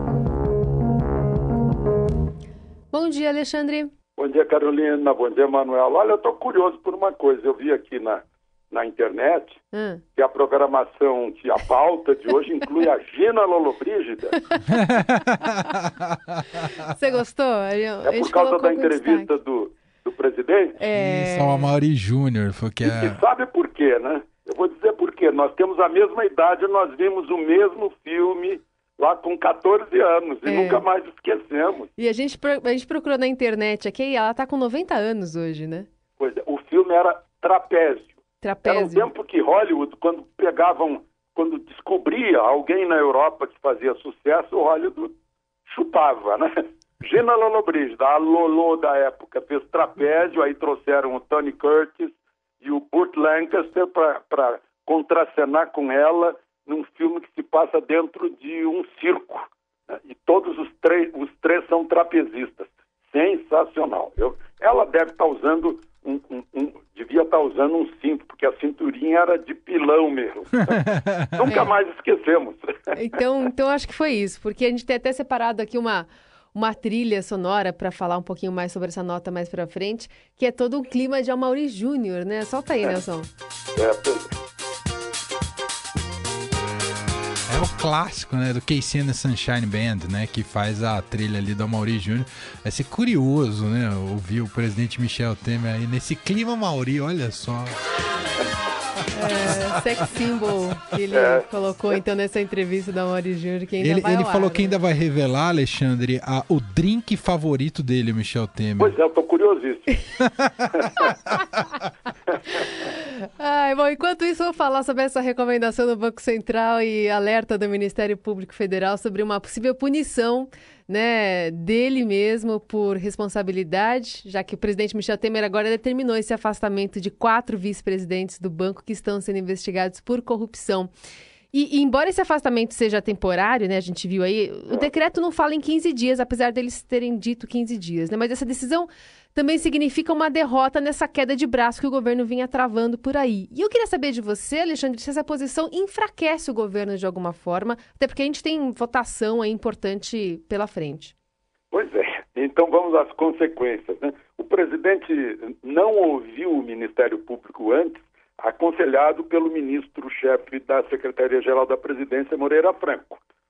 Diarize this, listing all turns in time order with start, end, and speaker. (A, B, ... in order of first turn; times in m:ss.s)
0:02.9-0:03.9 A
0:04.2-0:09.6 B
0:09.7-0:10.0 A
0:10.1-0:14.4 B
0:14.7-0:16.4 C
0:16.8-0:19.3 A
0:18.0-0:20.8 B
0:20.8-0:21.7 A
0:20.9-0:23.2 C
0:22.8-0:31.9 B
0:30.5-0:30.8 A
0:32.0-0:35.9 A
0:36.2-1:12.7 B
0:38.4-0:39.1 A
1:11.5-1:11.7 A
1:12.9-1:23.3 A
1:23.8-1:24.3 B
1:27.5-1:37.7 C
1:39.1-1:44.8 A
1:41.1-1:41.4 B
1:43.8-1:49.0 C
1:48.8-1:50.0 B
1:50.2-1:50.7 C
1:52.9-2:10.9 A
2:11.5-2:31.1 A
2:31.7-2:43.2 B